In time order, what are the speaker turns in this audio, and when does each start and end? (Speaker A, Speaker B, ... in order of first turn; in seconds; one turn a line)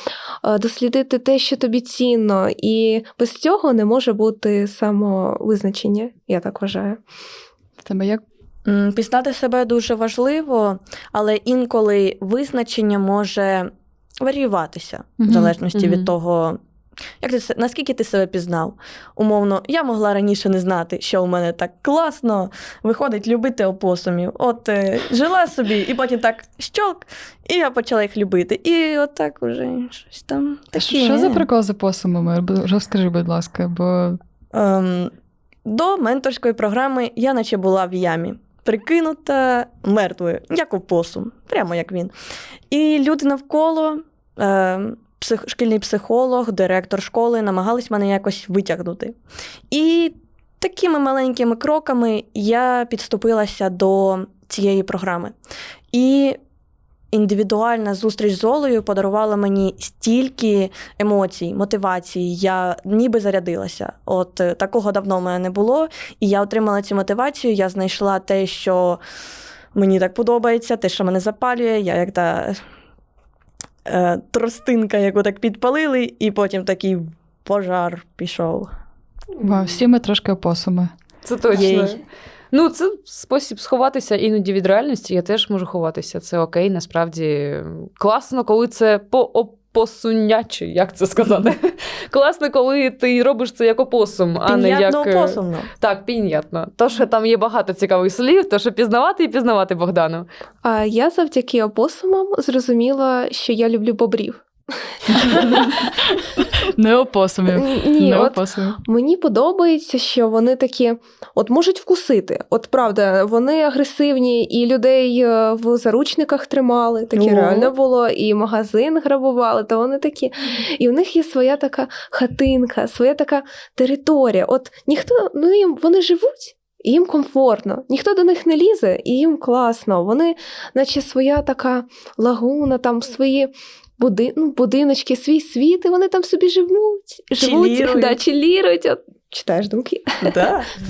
Speaker A: 0.4-7.0
Speaker B: 7.8-8.2
Speaker C: 8.7-16.6
Speaker B: 15.2-15.5
Speaker D: 15.7-16.1
Speaker C: 17.2-31.5
Speaker B: 30.8-34.2
Speaker C: 34.5-35.1
Speaker C: 35.7-42.1
Speaker C: 42.7-49.2
Speaker C: 49.7-55.4
Speaker C: 55.9-56.4
Speaker C: 57.1-69.0
Speaker C: 69.8-72.6
Speaker C: 73.9-78.7
Speaker B: 79.4-80.9
Speaker D: 81.2-82.0
Speaker C: 81.5-82.0
Speaker A: 81.6-81.9
Speaker D: 82.5-100.3
Speaker C: 94.5-95.7
Speaker A: 100.6-105.8
Speaker B: 106.5-108.8
Speaker A: 107.5-140.3
Speaker C: 117.1-117.7
Speaker C: 137.4-138.2
Speaker C: 140.2-140.7